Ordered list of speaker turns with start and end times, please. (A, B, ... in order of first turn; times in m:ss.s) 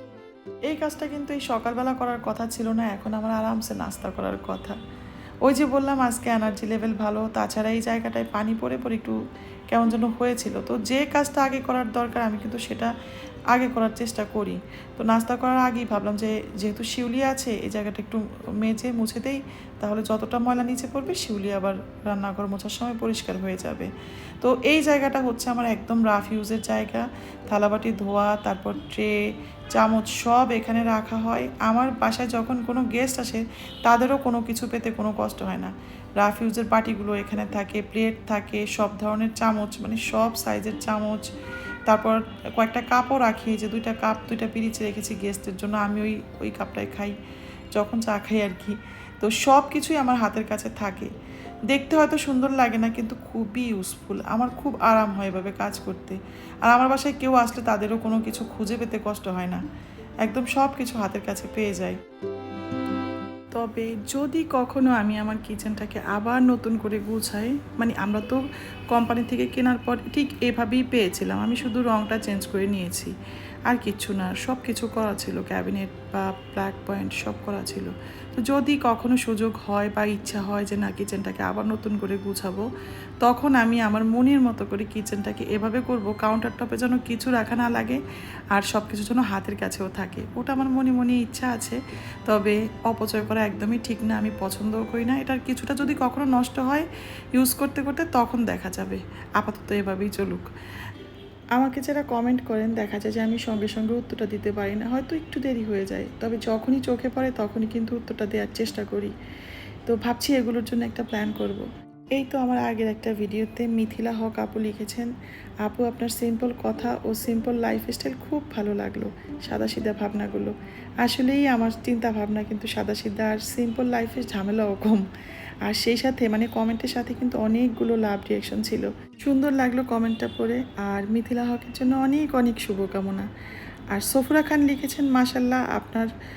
0:00.7-0:04.8 A
0:05.4-0:09.2 A
0:09.7-0:12.9 A
0:13.5-0:29.2 A
0:29.7-0:41.3 A
0:41.9-0:47.2 A
0:47.7-0:51.1 A
0:51.7-0:59.6 A
1:00.2-1:02.0 A
1:03.5-1:13.1 A
1:13.7-1:22.7 A
1:23.2-1:28.0 A
1:28.5-1:40.5 A
1:41.6-1:49.1 A
1:49.9-1:55.1 A
1:55.6-2:05.1 A
2:05.7-2:13.3 A
2:13.9-2:16.1 A